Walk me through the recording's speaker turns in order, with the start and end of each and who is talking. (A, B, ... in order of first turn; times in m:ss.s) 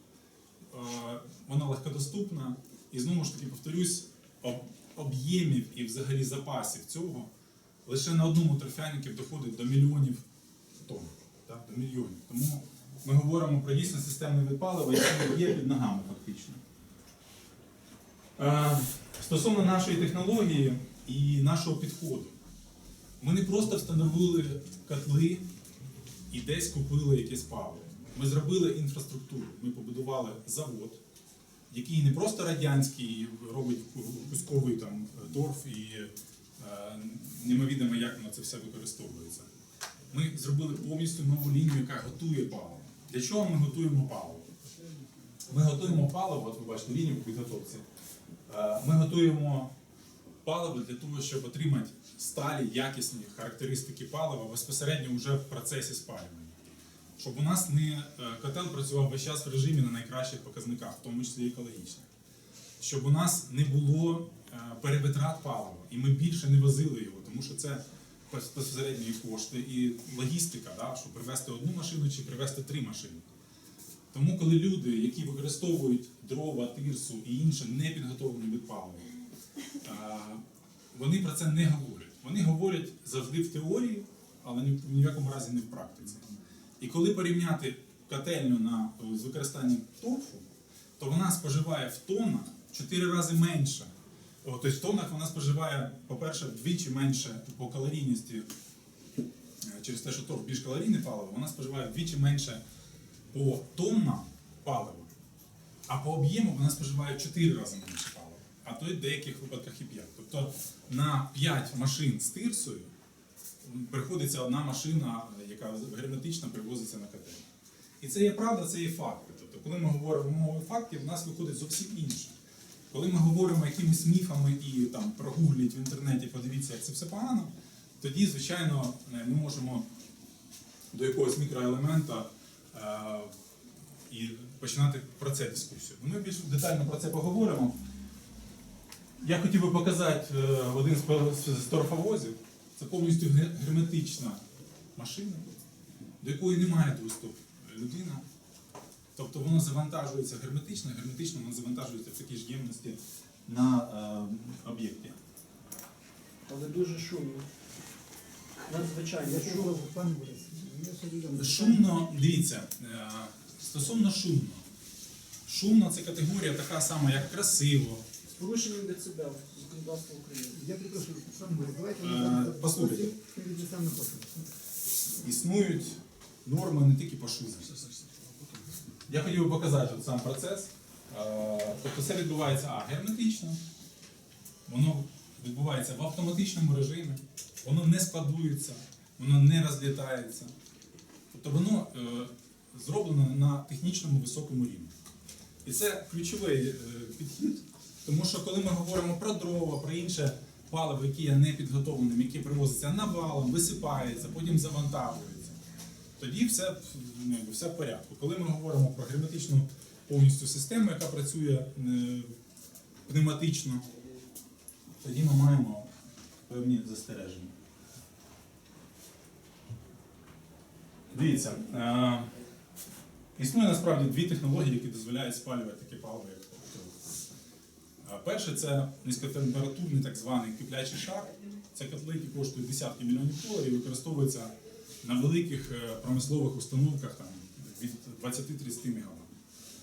0:00.7-0:07.3 A
0:07.9-0:10.2 A
0:10.8-0:16.6 A
0:18.4-0:22.4 A
0:23.2-0:25.4 A
0:26.3-0:31.0 A
0:31.7-0:39.5 A
0:40.1-0:44.5 A
0:45.5-0:47.8 A
0:48.5-0:49.7 A
0:50.4-0:56.6 A
0:57.2-1:02.0 A
1:02.8-1:13.2 A
1:14.1-1:19.1 A
1:19.8-1:20.4 A
1:20.9-1:26.2 A
1:26.8-1:30.4 A
1:31.0-1:33.9 A
1:34.4-1:38.5 A
1:39.6-1:42.6 A
1:43.3-1:45.1 A
1:45.9-1:52.9 A
1:53.6-1:57.4 A
1:58.0-2:02.4 A
2:02.9-2:09.9 A
2:10.9-2:13.3 A
2:14.1-2:17.8 A
2:19.2-2:24.4 A
2:25.0-2:25.6 A
2:26.2-2:28.2 A
2:29.2-2:35.2 A
2:36.5-2:37.5 B
2:38.6-2:39.8 B
2:39.2-2:41.9 C
2:41.3-2:44.6 A
2:45.5-2:48.0 A
2:48.4-2:50.6 B
2:50.5-2:54.4 C
2:52.0-2:53.1 A
2:55.2-2:57.8 A
2:57.9-2:58.2 B
2:59.1-3:03.6 A
3:04.7-3:10.5 A
3:11.3-3:14.9 A
3:15.6-3:25.6 A
3:26.2-3:32.3 A
3:33.1-3:33.9 A
3:35.0-3:35.9 A
3:36.5-3:37.5 A
3:41.1-3:42.3 A
3:43.4-3:47.0 A
3:48.0-3:59.3 A